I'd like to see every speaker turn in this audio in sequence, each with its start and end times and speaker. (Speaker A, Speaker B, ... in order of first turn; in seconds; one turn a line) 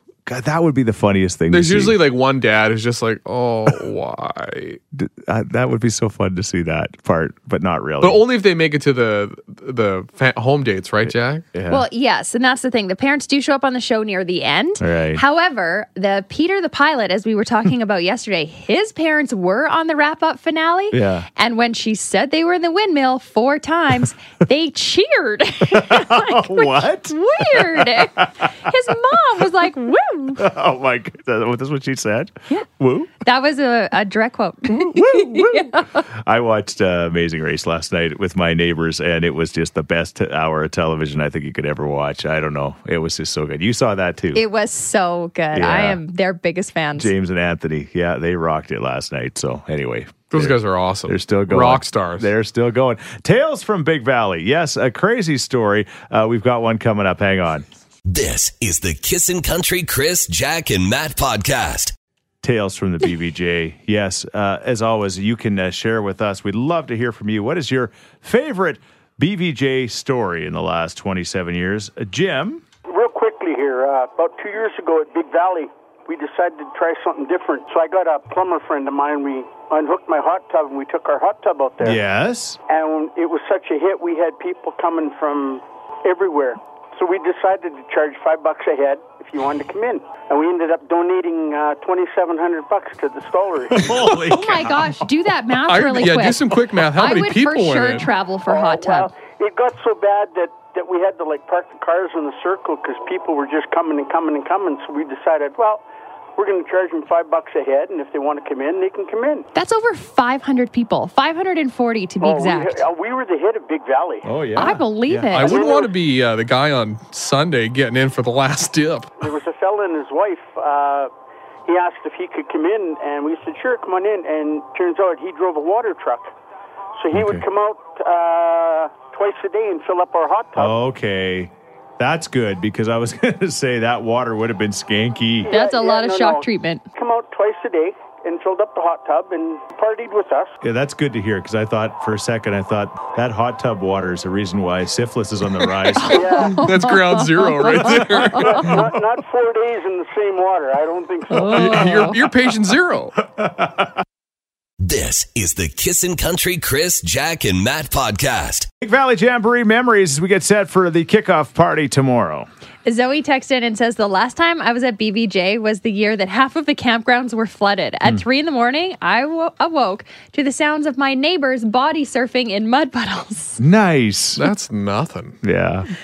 Speaker A: 0.2-2.0
Speaker B: 1.5-4.8
Speaker A: 4.9-8.2
Speaker B: 8.0-11.4
Speaker A: 11.5-11.8
Speaker C: 11.7-30.4
Speaker A: 14.8-15.2
Speaker A: 20.9-21.3
Speaker A: 25.7-28.5
Speaker A: 30.4-33.1
Speaker C: 33.2-36.0
Speaker A: 34.7-44.4
Speaker C: 44.3-47.1
Speaker A: 45.5-46.0
Speaker A: 47.0-57.7
Speaker B: 50.3-52.3
Speaker D: 58.0-61.9
Speaker A: 62.4-72.6
Speaker E: 72.9-82.0
Speaker A: 81.8-82.6
Speaker E: 82.7-94.0
Speaker A: 93.7-95.1
Speaker C: 94.1-99.1
Speaker B: 95.7-98.1
Speaker E: 98.5-105.8
Speaker E: 106.4-109.5
Speaker C: 109.5-112.8
Speaker E: 112.2-114.3
Speaker A: 114.2-115.4
Speaker C: 114.6-115.6
Speaker B: 115.3-119.1
Speaker E: 115.4-115.9
Speaker E: 119.2-121.1
Speaker E: 121.7-126.3
Speaker E: 127.0-130.7
Speaker A: 127.1-127.5
Speaker A: 130.6-135.5
Speaker E: 135.5-140.6
Speaker C: 135.5-136.8
Speaker A: 140.6-146.3
Speaker B: 145.9-148.8
Speaker C: 146.0-148.7
Speaker E: 146.1-146.6
Speaker E: 148.3-151.8
Speaker A: 148.6-148.9
Speaker C: 151.3-152.2
Speaker B: 151.5-153.2
Speaker A: 153.2-154.0
Speaker D: 154.8-158.7
Speaker A: 158.8-162.5
Speaker C: 162.8-173.6
Speaker A: 173.6-174.5
Speaker B: 174.4-175.4
Speaker A: 175.4-175.9